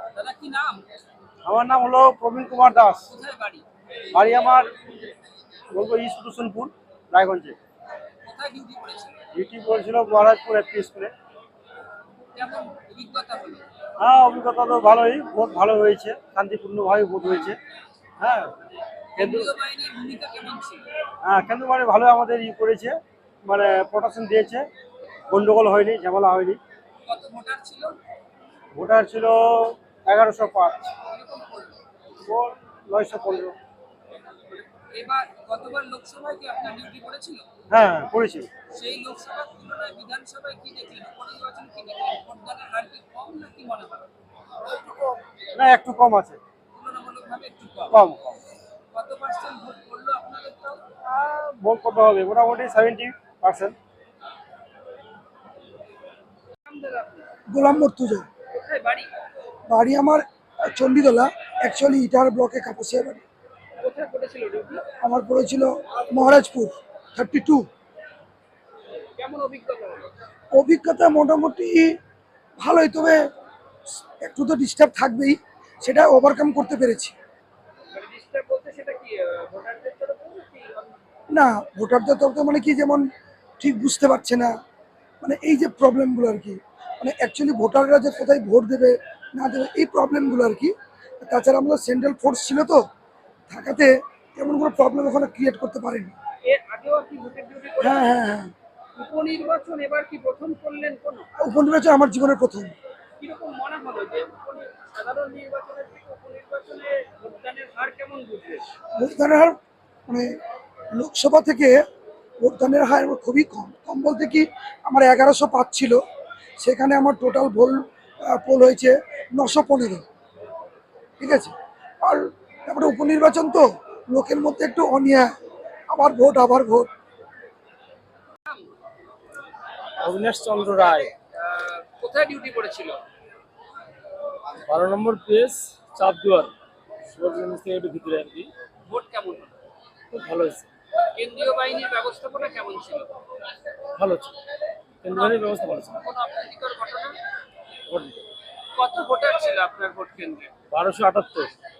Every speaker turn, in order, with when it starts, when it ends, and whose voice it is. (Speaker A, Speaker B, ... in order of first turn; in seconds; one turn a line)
Speaker A: 0.1-0.8
Speaker B: 1.4-3.0
Speaker A: 3.1-3.6
Speaker B: 4.1-4.7
Speaker B: 5.7-7.5
Speaker A: 8.2-9.1
Speaker B: 9.3-11.1
Speaker A: 12.3-13.6
Speaker B: 14.0-17.6
Speaker B: 18.2-18.5
Speaker B: 19.2-19.5
Speaker A: 19.2-20.8
Speaker B: 21.2-24.6
Speaker B: 25.3-26.6
Speaker A: 27.1-27.9
Speaker B: 28.7-30.9
Speaker A: 31.0-31.8
Speaker B: 32.2-33.5
Speaker A: 34.6-37.5
Speaker B: 37.7-38.5
Speaker A: 38.7-44.0
Speaker B: 45.6-46.4
Speaker A: 46.7-47.9
Speaker B: 47.9-48.3
Speaker A: 48.9-50.8
Speaker B: 51.1-53.7
Speaker A: 56.7-57.2
Speaker C: 57.5-58.2
Speaker A: 58.5-59.1
Speaker C: 59.7-63.2
Speaker A: 63.8-64.8
Speaker C: 65.0-67.6
Speaker A: 69.2-70.1
Speaker C: 70.5-71.9
Speaker C: 72.6-73.2
Speaker C: 74.2-77.1
Speaker A: 77.9-80.9
Speaker C: 81.3-83.0
Speaker C: 83.6-84.5
Speaker C: 85.2-92.8
Speaker C: 93.5-96.1
Speaker A: 96.5-98.1
Speaker C: 97.8-98.5
Speaker A: 99.0-101.3
Speaker C: 101.4-102.7
Speaker A: 103.2-108.6
Speaker C: 109.0-109.5
Speaker C: 111.0-111.8
Speaker C: 112.4-116.0
Speaker C: 116.6-120.0
Speaker C: 121.2-121.5
Speaker C: 122.0-125.3
Speaker C: 125.9-126.9
Speaker D: 130.0-131.1
Speaker A: 131.4-133.0
Speaker D: 134.7-136.5
Speaker D: 137.2-138.5
Speaker A: 138.9-139.5
Speaker D: 140.1-140.6
Speaker A: 141.2-143.1
Speaker D: 144.0-144.3
Speaker D: 145.0-146.0
Speaker A: 145.1-147.2
Speaker A: 148.8-150.5
Speaker D: 150.7-151.5